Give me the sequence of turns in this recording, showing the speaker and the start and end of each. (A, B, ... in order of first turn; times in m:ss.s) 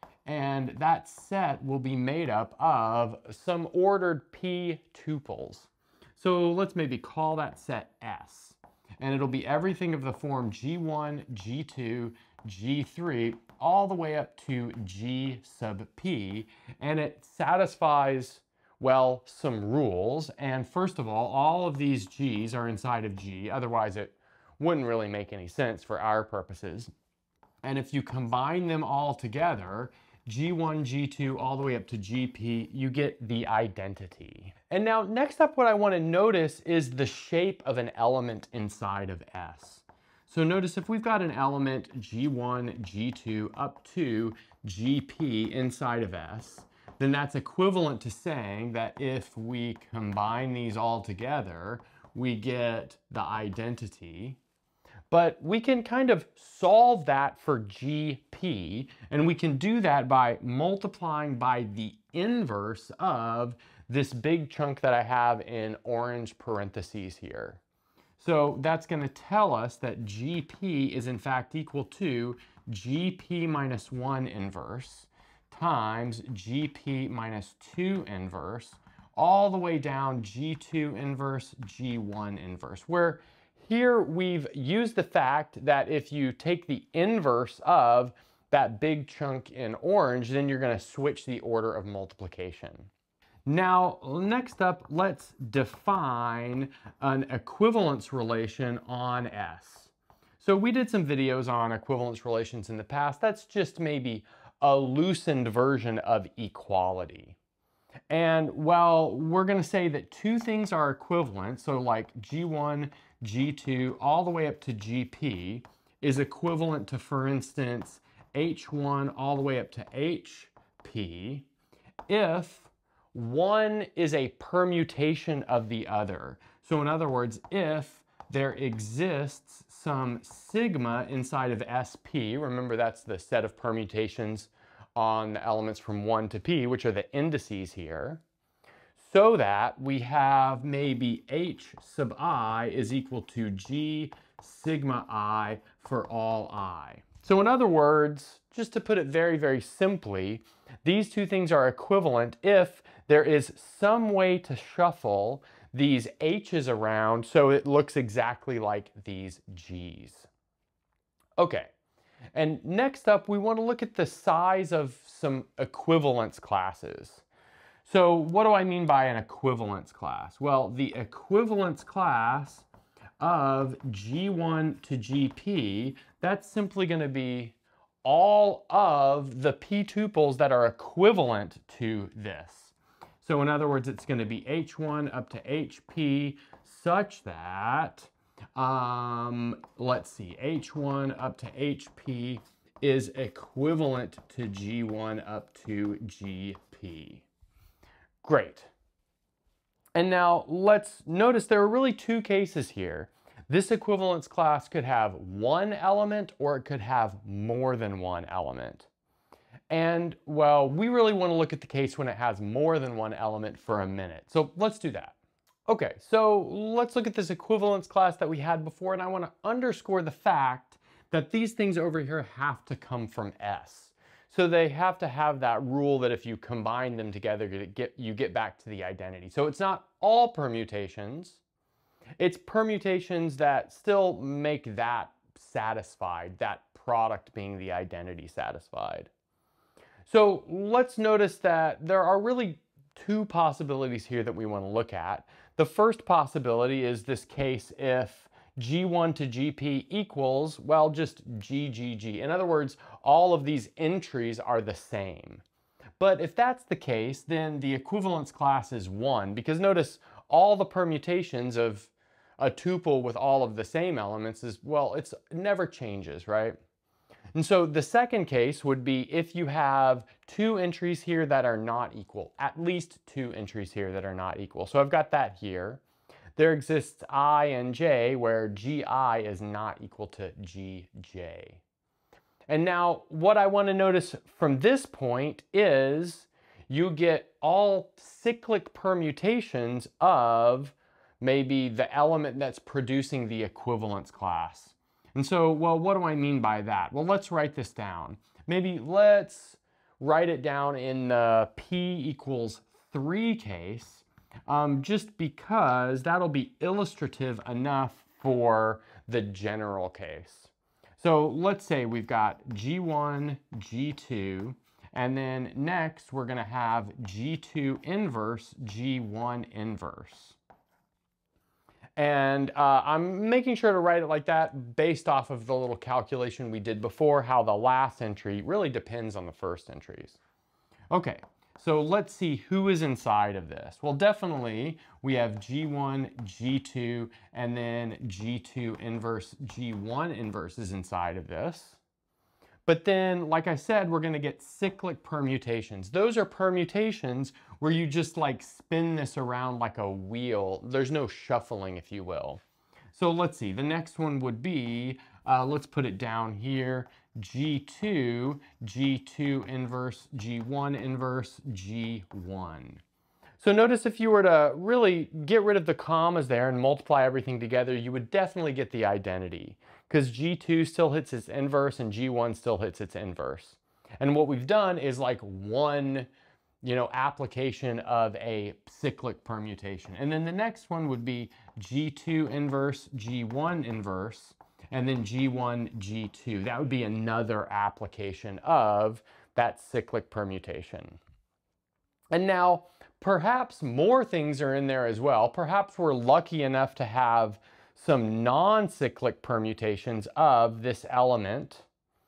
0:00.2-0:26.9 A
0:27.6-0:54.4 A
0:55.1-1:07.6 A
1:08.2-1:32.9 A
1:33.4-1:47.4 A
1:48.1-2:01.5 A
2:02.1-2:18.2 A
2:19.0-2:40.3 A
2:41.4-2:41.7 A
2:42.3-2:47.2 A
2:47.8-2:52.7 A
2:53.2-3:17.2 A
3:18.2-3:18.7 A
3:19.9-3:28.9 A
3:29.7-3:35.2 A
3:35.7-3:51.4 A
3:52.2-3:59.1 A
4:00.0-4:15.4 A
4:16.0-4:26.6 A
4:27.3-4:35.8 A
4:36.4-4:41.6 A
4:42.5-5:20.4 A
5:22.0-5:30.2 A
5:30.9-5:41.8 A
5:42.6-5:52.4 A
5:52.9-6:02.8 A
6:03.4-6:16.1 A
6:16.6-6:31.0 A
6:32.1-6:41.6 A